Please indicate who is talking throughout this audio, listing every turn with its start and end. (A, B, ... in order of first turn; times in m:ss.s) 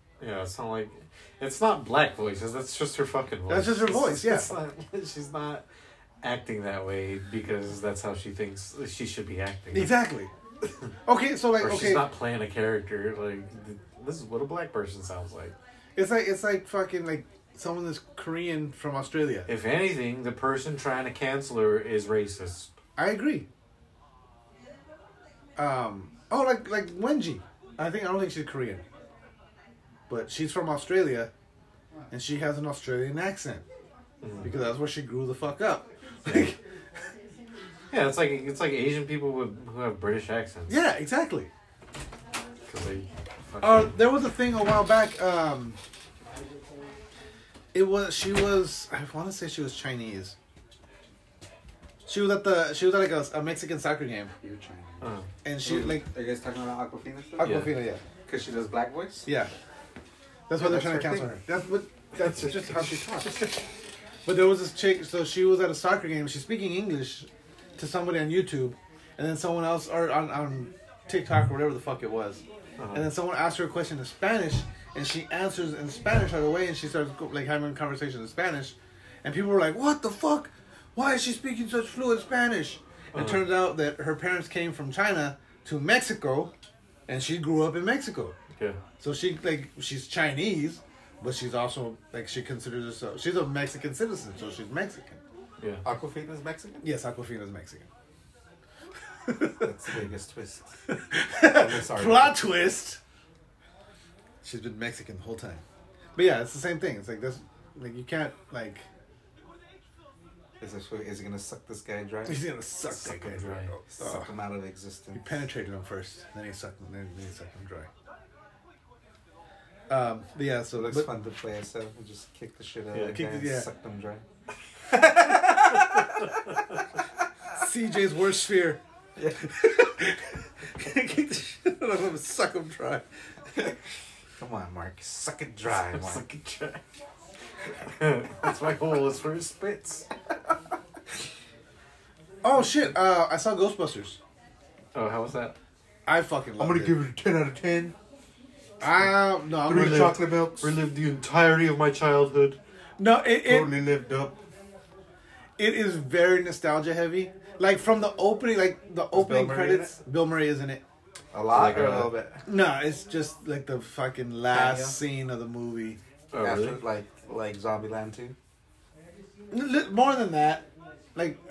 0:00.2-0:05.6 A
0:03.5-0:04.5 B
0:06.2-0:10.0 A
0:09.7-0:10.3 B
0:11.0-0:12.1 B
0:11.6-0:15.6 A
0:16.0-0:19.5 B
0:19.5-0:22.7 A
0:23.0-0:23.5 B
0:25.6-0:28.8 B
0:30.1-0:31.3 B
0:32.1-0:33.6 B
0:34.2-0:34.5 A
0:34.4-0:36.6 B
0:37.9-0:40.8 A
0:40.7-0:41.5 B
0:42.7-0:44.0 A
0:43.6-0:45.8 B
0:47.7-0:50.3 B
0:52.0-0:54.3 B
0:54.4-0:55.1 C
0:55.0-0:55.3 A
0:55.4-0:56.1 B
0:55.6-0:57.6 C
0:57.4-0:58.0 B
0:57.4-0:57.8 A
0:58.2-0:59.3 C
0:59.2-0:59.5 B
1:00.5-1:03.6 B
1:00.6-1:01.4 C
1:02.2-1:03.1 A
1:04.2-1:26.5 B
1:12.8-1:13.1 A
1:23.1-1:23.5 A
1:27.1-1:28.4 B
1:28.6-1:28.8 A
1:29.0-1:35.2 B
1:35.6-1:35.8 A
1:35.8-1:36.9 C
1:36.8-1:37.9 B
1:39.2-1:39.7 B
1:39.6-1:40.8 C
1:40.9-1:43.0 B
1:41.4-1:42.4 C
1:44.4-1:45.6 B
1:46.2-1:48.8 B
1:50.6-1:52.4 C
1:52.2-1:54.3 B
1:52.9-1:53.7 A
1:53.9-1:55.3 C
1:55.1-1:57.9 B
1:59.9-2:01.1 B
2:00.7-2:04.2 C
2:03.0-2:03.7 B
2:05.2-2:05.8 C
2:07.5-2:08.8 B
2:09.2-2:09.5 C
2:09.4-2:13.0 B
2:14.4-2:16.2 C
2:15.7-2:16.8 A
2:17.8-2:20.1 A
2:22.4-2:24.2 B
2:24.9-2:25.6 A
2:26.0-2:27.0 B
2:26.6-2:27.9 C
2:28.8-2:30.2 B
2:29.0-2:32.6 A
2:29.6-2:30.8 C
2:33.0-2:33.8 B
2:33.4-2:34.4 C
2:35.6-2:40.8 B
2:39.1-2:40.0 C
2:41.3-2:42.4 C
2:41.5-2:42.2 A
2:42.4-2:46.0 B
2:44.5-2:45.0 C
2:46.3-2:46.8 A
2:46.4-2:48.4 C
2:49.5-2:51.4 B